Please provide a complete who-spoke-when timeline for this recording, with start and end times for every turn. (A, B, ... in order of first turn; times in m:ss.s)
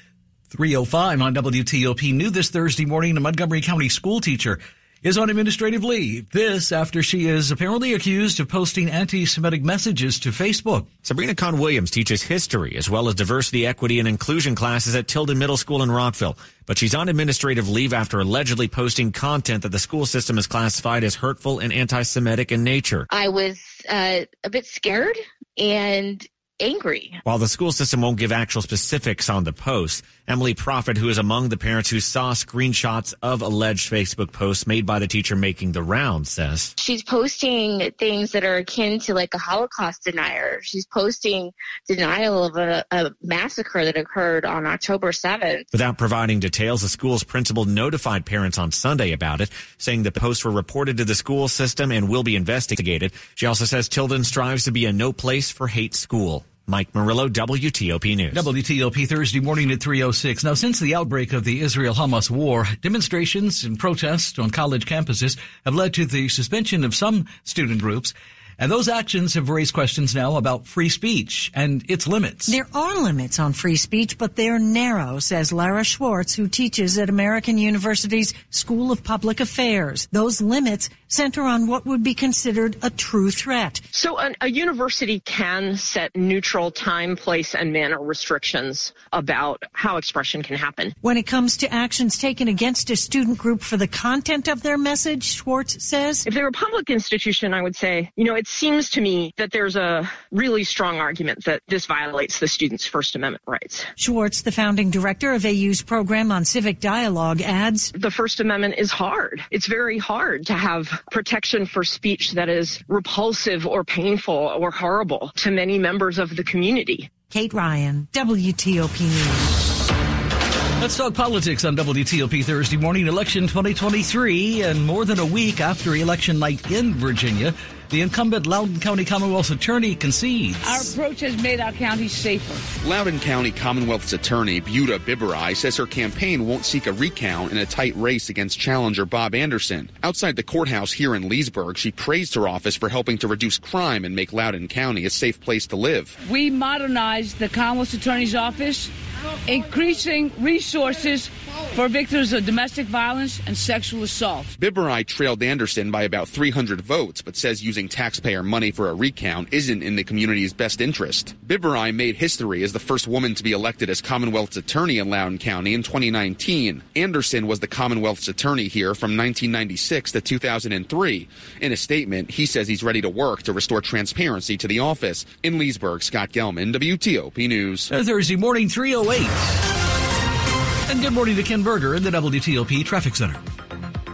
0:00.5-0:10.9 A
0:11.0-0:23.1 B
0:23.1-0:27.2 C
0:27.2-0:36.7 B
0:36.8-0:45.6 C
0:45.7-0:58.4 B
0:58.3-1:12.6 A
1:12.5-1:23.8 D
1:23.9-1:30.9 E
1:31.0-1:36.2 D
1:36.2-1:43.9 E
1:44.0-1:47.9 D
1:47.9-1:57.1 E
1:57.3-1:59.5 D
2:00.8-2:10.9 A
2:10.6-2:12.6 F
2:12.8-2:26.2 G
2:26.2-2:28.9 F
2:29.5-2:34.5 F
2:34.6-2:57.9 G
2:57.9-2:59.6 A
3:00.9-3:03.4 A